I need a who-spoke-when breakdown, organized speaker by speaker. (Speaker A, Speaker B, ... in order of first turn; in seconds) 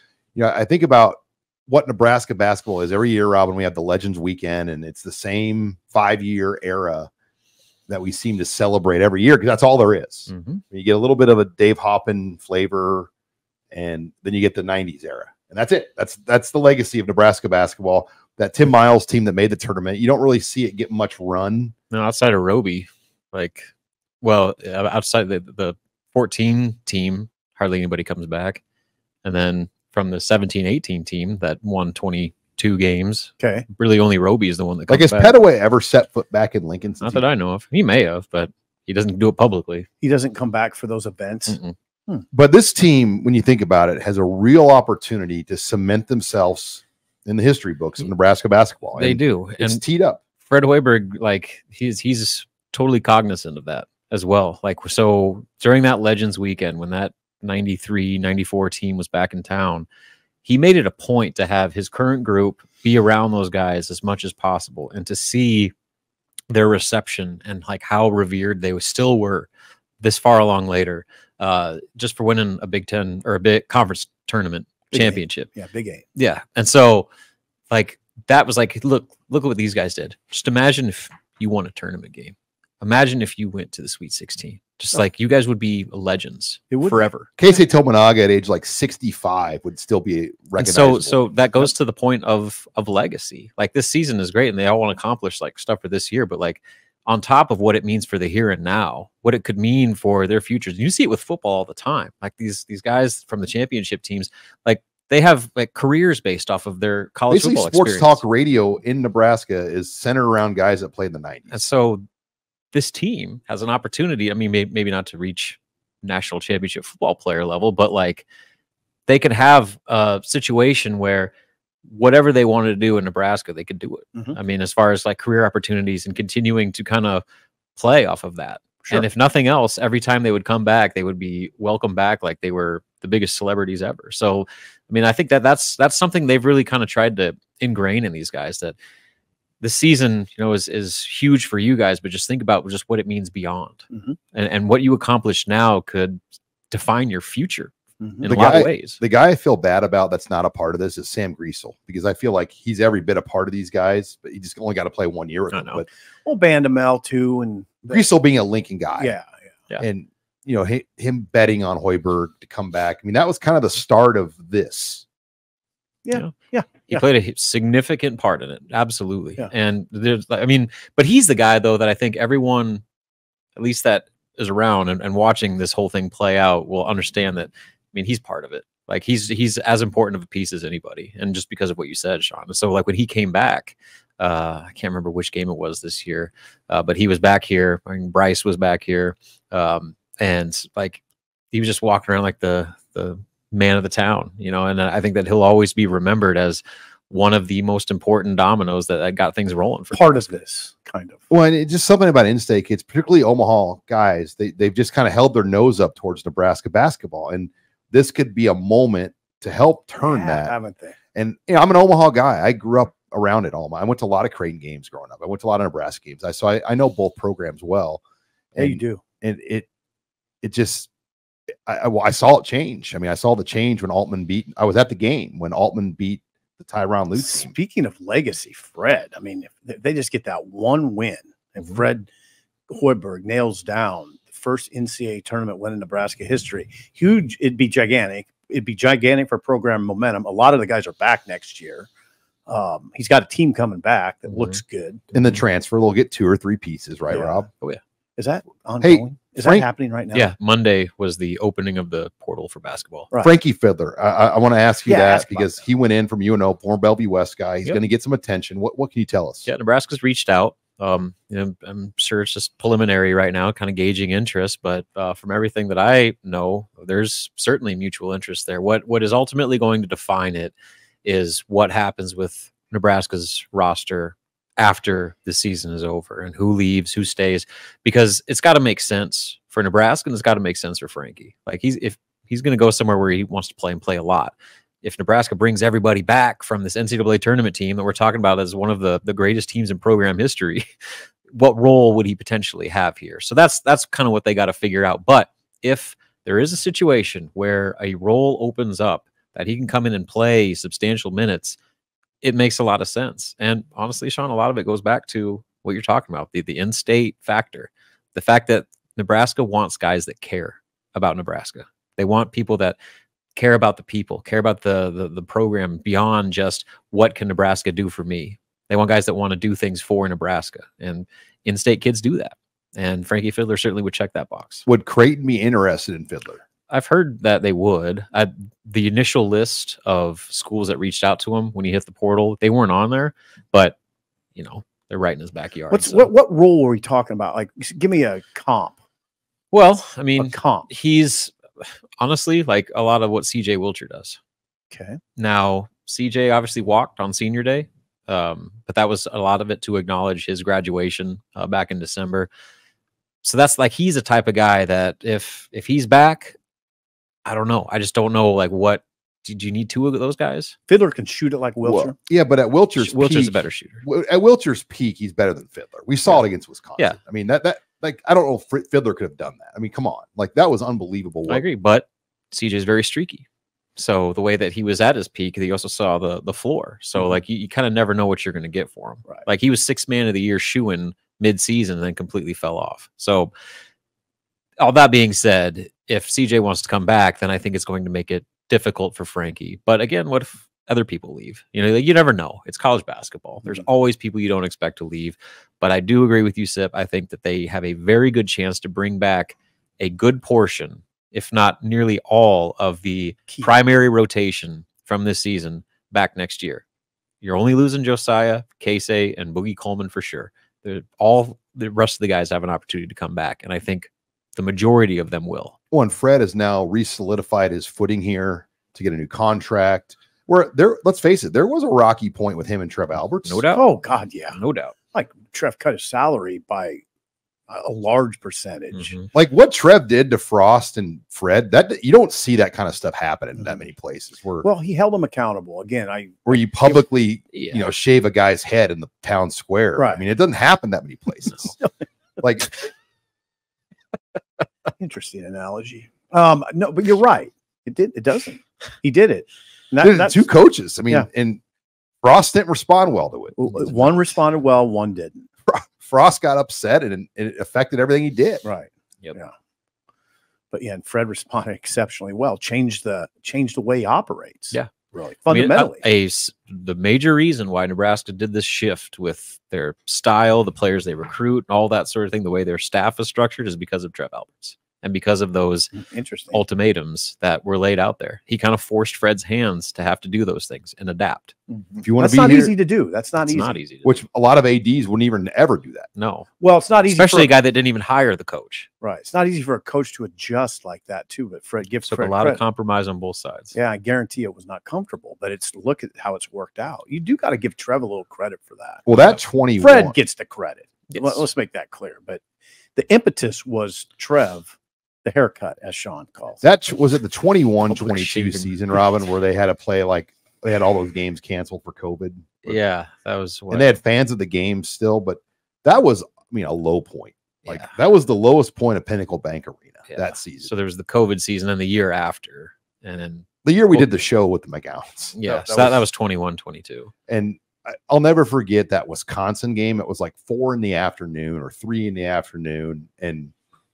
Speaker A: 0.3-7.1, 7.9-13.1, 13.7-21.7, 34.9-37.2, 42.3-50.2, 87.4-91.2, 107.3-111.6, 148.3-155.9, 157.9-159.2, 159.8-165.1, 201.3-210.5, 211.2-218.0, 218.5-219.7, 220.4-220.9, 221.7-227.5, 245.1-247.5, 248.8-249.7, 253.2-259.5, 324.7-326.4, 361.6-371.4, 415.7-423.4, 429.1-434.5, 436.3-441.6, 442.2-442.6, 449.8-451.4, 452.0-454.2, 455.5-458.4, 481.8-482.5, 483.8-485.9, 498.9-500.0, 506.4-512.6, 513.5-520.5, 523.4-525.8, 527.1-533.3
Speaker B: 10.3-10.6, 21.9-23.7, 24.2-28.6, 29.2-35.4, 37.0-39.9, 41.5-41.8, 49.0-49.8, 50.5-59.9, 60.5-65.7, 66.5-69.5, 70.0-75.5, 76.2-77.1, 77.7-87.3, 90.6-108.2, 111.5-112.0, 112.7-118.2, 119.1-121.3, 121.9-127.2, 127.8-138.8, 139.6-149.0, 155.5-155.8, 166.9-172.8, 173.6-191.0, 191.5-200.1, 244.3-244.6, 250.1-253.1, 259.5-290.7, 291.3-301.6, 302.2-312.8, 313.4-324.6, 326.7-333.8, 334.4-336.1, 339.5-344.2, 345.2-352.3, 353.2-356.4, 357.2-360.6, 362.8-363.8, 371.3-373.2, 373.8-383.3, 384.6-406.6, 407.2-415.6, 423.2-423.6, 424.3-424.7, 428.7-429.1, 437.3-437.6, 465.3-475.7, 476.3-481.4, 483.2-484.0, 486.0-486.3, 486.8-488.7, 491.9-493.5, 500.9-501.2, 507.7-508.5, 512.5-513.8, 517.5-517.7, 519.9-523.9, 525.1-526.9
Speaker C: 33.4-33.7, 40.0-42.3, 74.9-76.0, 86.7-87.1, 143.9-144.2, 148.0-148.3, 156.2-158.0, 159.0-159.3, 166.1-167.0, 199.9-201.2, 210.0-211.0, 218.6-219.0, 227.2-232.1, 232.7-241.9, 242.5-245.0, 247.1-247.4, 248.2-250.3, 254.9-255.6, 335.7-338.8, 340.2-340.7, 344.7-345.0, 360.7-362.0, 403.3-403.6, 423.5-424.4, 424.9-426.8, 427.5-429.0, 434.4-436.8, 439.8-440.0, 444.8-450.3, 453.4-455.3, 458.4-459.3, 460.5-465.8, 475.8-476.4, 481.5-483.6, 486.4-487.3, 488.8-492.4, 493.5-498.9, 499.6-502.2, 502.8-506.4